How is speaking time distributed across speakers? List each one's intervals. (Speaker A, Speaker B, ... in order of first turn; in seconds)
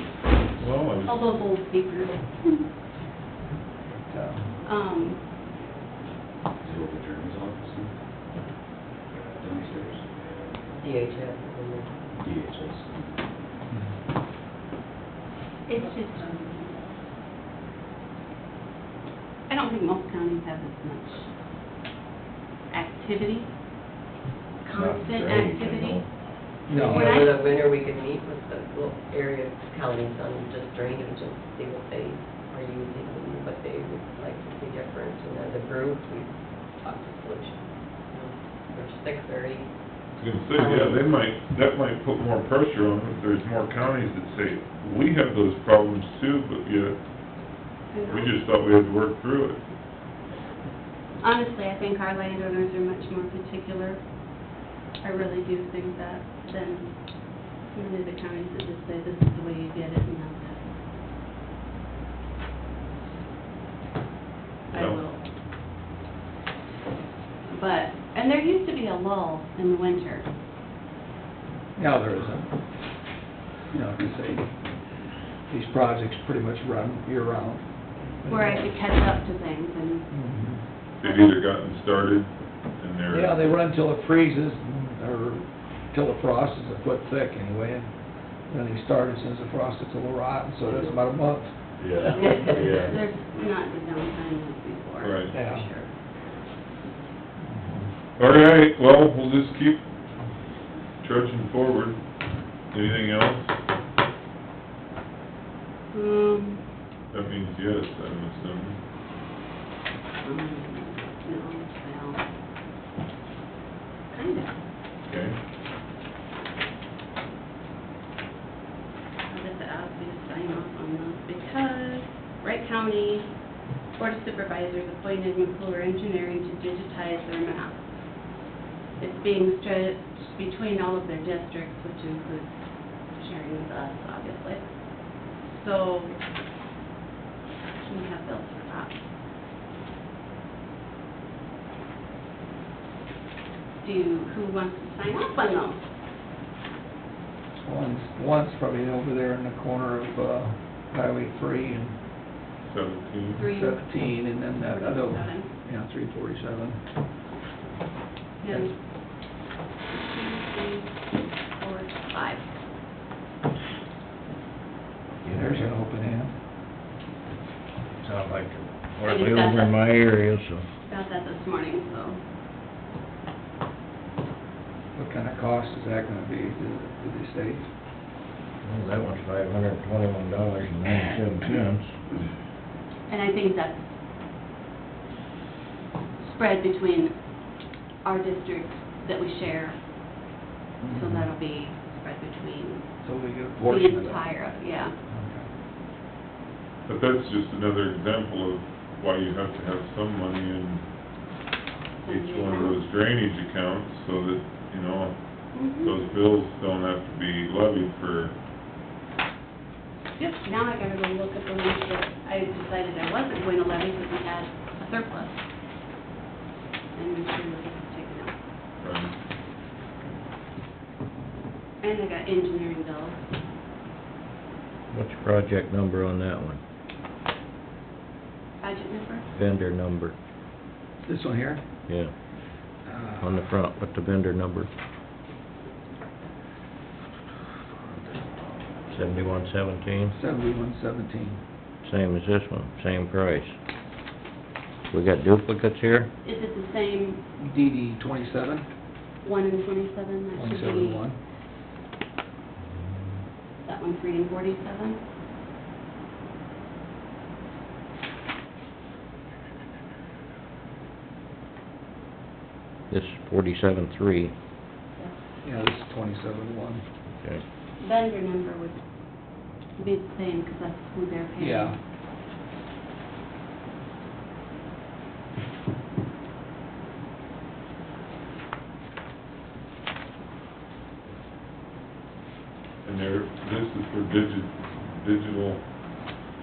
Speaker A: 0.6-1.4, 40.1-47.0, 48.1-49.6, 64.7-65.0, 81.0-83.5, 95.0-95.4, 98.2-99.8, 101.0-102.0, 102.7-103.5, 107.1-108.8, 115.1-115.4, 152.6-153.5, 196.9-200.8, 202.0-208.3, 218.8-219.1, 282.8-285.6
Speaker B: 1.1-2.5, 4.7-5.2, 15.7-16.9, 19.5-21.3, 22.7-23.5, 24.6-26.0, 26.7-27.4, 47.9-48.3, 51.2-54.1, 55.0-60.6, 64.7-65.2, 67.5-70.3, 78.3-80.1, 81.0-81.3, 92.1-95.9, 105.9-106.7, 110.2-112.2, 114.1-114.6, 119.3-127.8, 129.0-136.2, 137.9-138.9, 143.8-145.8, 153.4-155.5, 158.4-158.8, 159.9-162.5, 169.1-169.8, 170.9-172.2, 183.1-183.9, 186.2-187.2, 188.0-189.8, 190.9-192.9, 193.6-194.9, 202.0-202.8, 205.5-205.9, 210.2-215.4, 216.9-218.4, 221.8-223.2, 228.6-229.3, 246.2-247.2, 249.2-251.1, 253.6-255.0, 267.8-268.8, 269.8-271.8
Speaker C: 4.1-4.5, 26.7-27.3, 71.8-72.5, 73.7-74.6, 75.5-78.9, 80.1-80.6, 83.1-92.3, 95.3-95.7, 97.5-97.9, 147.6-152.0, 153.4-156.8, 165.2-166.3, 174.9-177.7, 190.8-191.3, 193.0-194.3, 195.1-195.5, 231.0-231.6, 232.8-233.4, 240.1-241.4, 247.4-248.7, 250.3-251.2, 265.4-266.8, 271.4-271.8
Speaker D: 6.6-8.0, 9.4-10.1, 12.2-13.2, 91.8-93.0
Speaker E: 10.8-12.1, 26.7-39.8, 40.5-41.1, 90.7-91.0, 92.2-92.8
Speaker F: 24.7-26.1, 168.0-170.7, 178.6-181.9, 224.9-226.6, 229.3-230.2, 231.9-232.2, 233.2-234.7, 238.9-240.2, 241.8-243.5, 244.9-246.1, 262.9-264.3